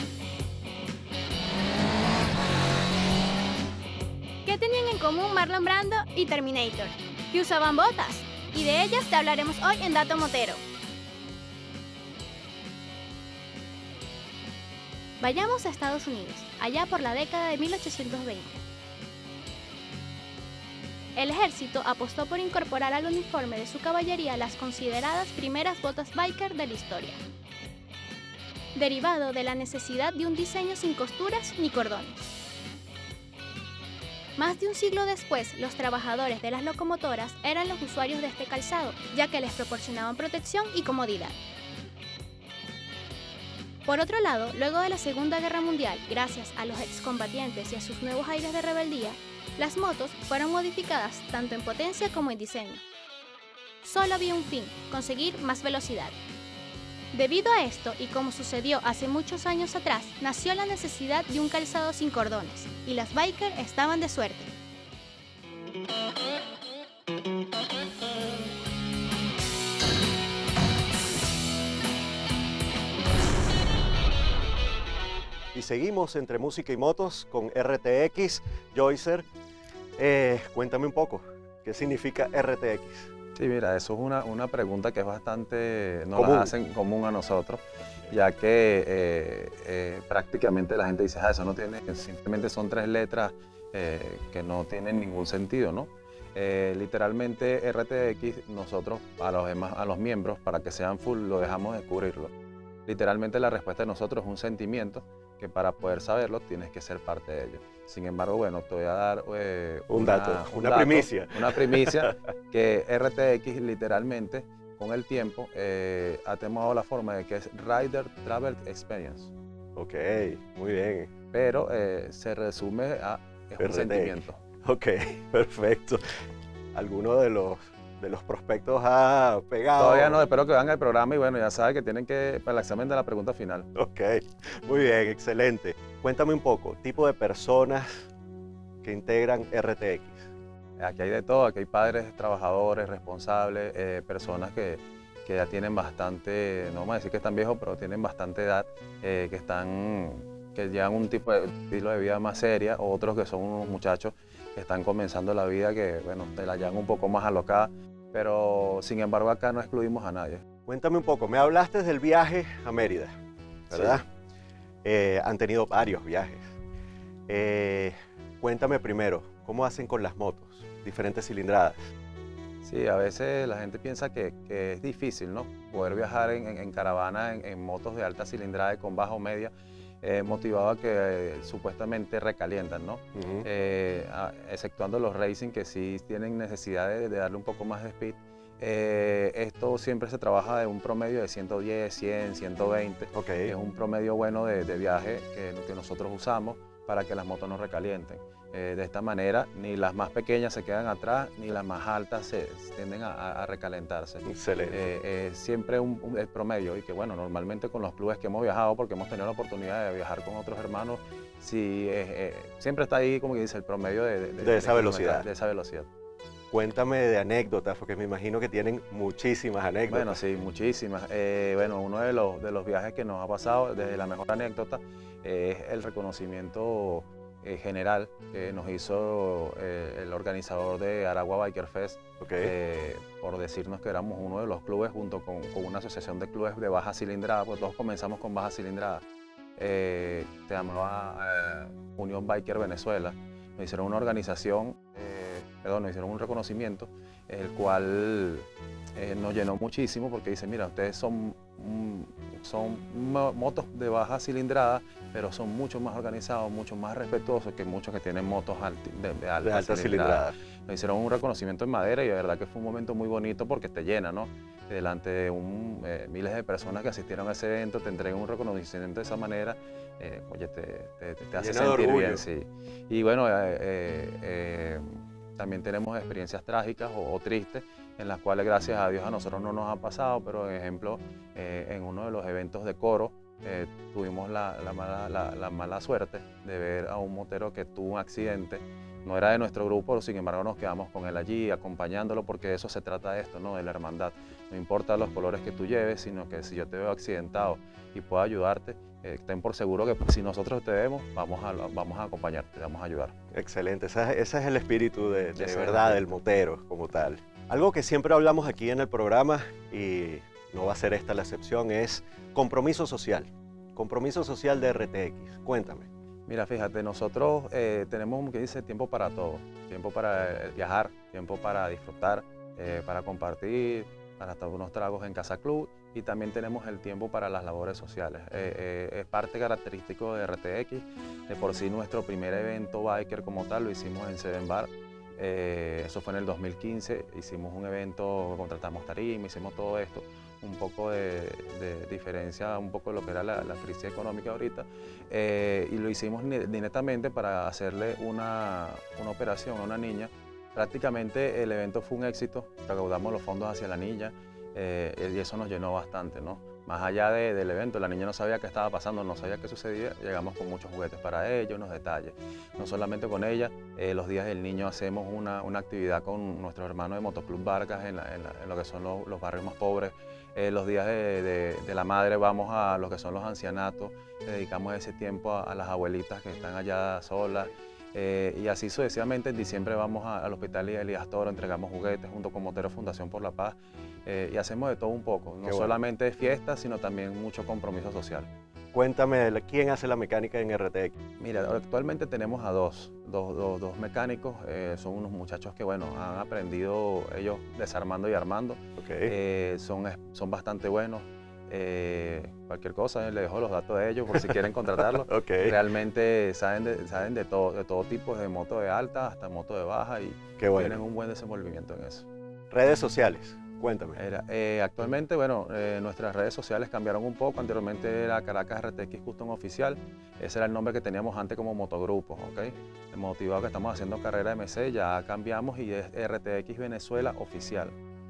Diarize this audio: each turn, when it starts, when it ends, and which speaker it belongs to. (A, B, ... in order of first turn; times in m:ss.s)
0:04.4-0:10.6 A
0:15.2-0:18.6 A
0:21.2-0:27.2 A
0:28.8-0:32.2 A
0:34.4-0:41.3 A
0:43.9-0:52.8 A
0:53.8-0:56.1 A
0:57.1-1:04.5 A
1:15.5-1:19.3 B
1:20.0-1:23.1 B
1:23.4-1:42.3 C
1:26.2-1:26.5 B
1:42.9-1:59.3 C
1:49.9-1:52.2 B
1:59.8-2:01.1 B
2:01.3-2:04.4 C
2:03.6-2:06.2 B
2:06.7-2:10.2 B
2:09.8-2:13.7 C
2:13.8-2:18.1 B
2:18.8-2:20.3 B
2:20.8-2:40.4 C
2:40.7-2:43.2 B
2:43.7-2:44.0 B
2:43.7-2:44.0 C
2:44.8-2:46.5 B
2:47.3-2:51.9 B
2:52.6-3:35.9 C
3:03.2-3:03.5 B
3:13.1-3:13.5 B
3:24.2-3:24.9 B
3:34.4-3:35.3 B
3:36.5-3:40.2 B
3:39.9-3:59.0 C
3:52.2-3:52.5 B
3:59.6-5:03.2 C
4:19.4-4:20.4 B
4:31.4-4:32.2 B
5:03.3-5:15.9 B
5:05.4-5:06.1 C
5:16.3-6:28.3 C
6:25.4-6:25.8 B
6:28.7-6:30.9 B
6:31.2-6:52.1 C
6:38.8-6:39.1 B
6:44.1-6:45.6 B
6:50.4-6:50.8 B
6:52.5-6:54.0 B
6:54.0-7:07.8 C